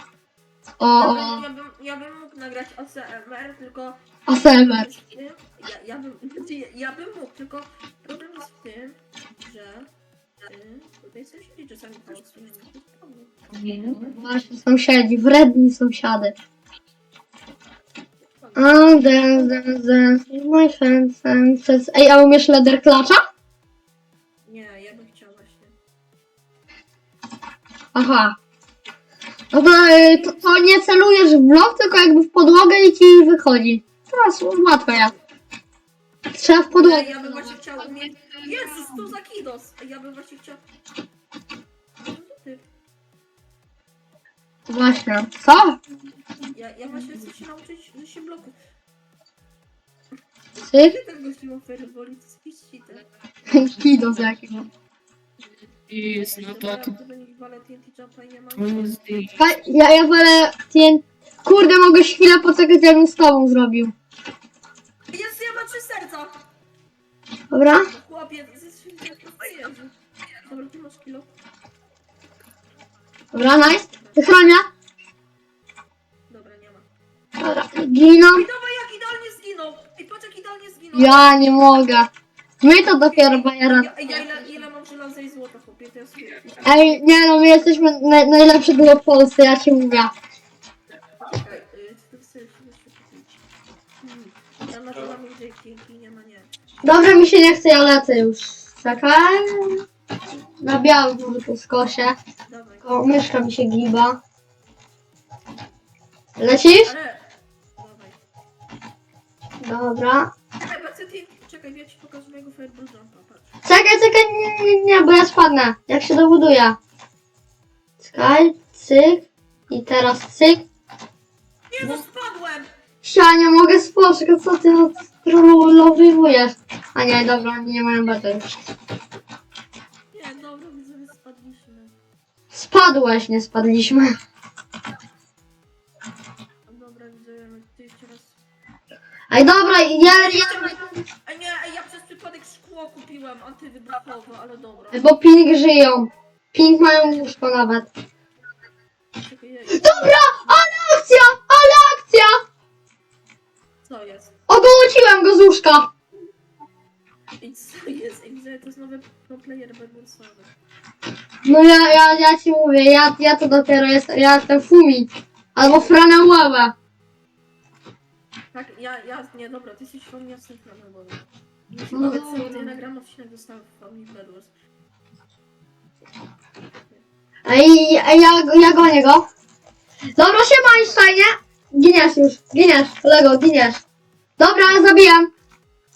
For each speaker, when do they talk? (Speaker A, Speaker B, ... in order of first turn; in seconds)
Speaker A: 0.8-1.4, 4.3-4.9, 14.2-16.3, 18.6-23.2, 27.9-28.4, 29.5-35.1, 36.3-37.5, 44.7-45.8, 50.6-51.0, 53.5-54.6, 59.4-63.9, 67.5-67.9, 73.3-74.7, 77.4-78.5, 80.9-82.1, 82.6-83.9, 86.6-90.1, 96.8-99.8, 100.6-102.2, 102.8-104.2, 106.4-106.9, 109.6-110.3, 113.6-116.8, 118.0-120.6, 123.0-128.5, 132.5-134.1, 139.3-140.9, 144.9-147.9, 149.7-152.3, 154.5-155.9, 161.4-166.7, 171.9-172.7, 177.4-179.2, 180.2-183.8, 184.4-185.3
Speaker B: 0.9-9.9, 10.4-13.3, 13.9-14.2, 18.2-19.1, 24.4-25.7, 36.7-40.6, 42.0-42.6, 46.5-48.5, 50.8-53.0, 56.3-59.0, 65.1-66.4, 67.8-69.9, 70.5-71.3, 73.5-74.4, 76.3-76.8, 78.3-81.4, 82.8-87.8, 91.2-93.4, 94.0-96.5, 102.4-103.0, 106.8-107.2, 107.8-108.2, 110.6-113.5, 121.7-122.7, 130.1-131.9, 136.7-138.4, 140.0-145.1, 149.2-150.2, 153.8-154.3, 157.4-160.5, 168.5-174.5, 180.5-181.1
Speaker C: 13.5-14.1, 37.8-38.6, 53.9-54.3, 55.9-56.9, 58.5-59.4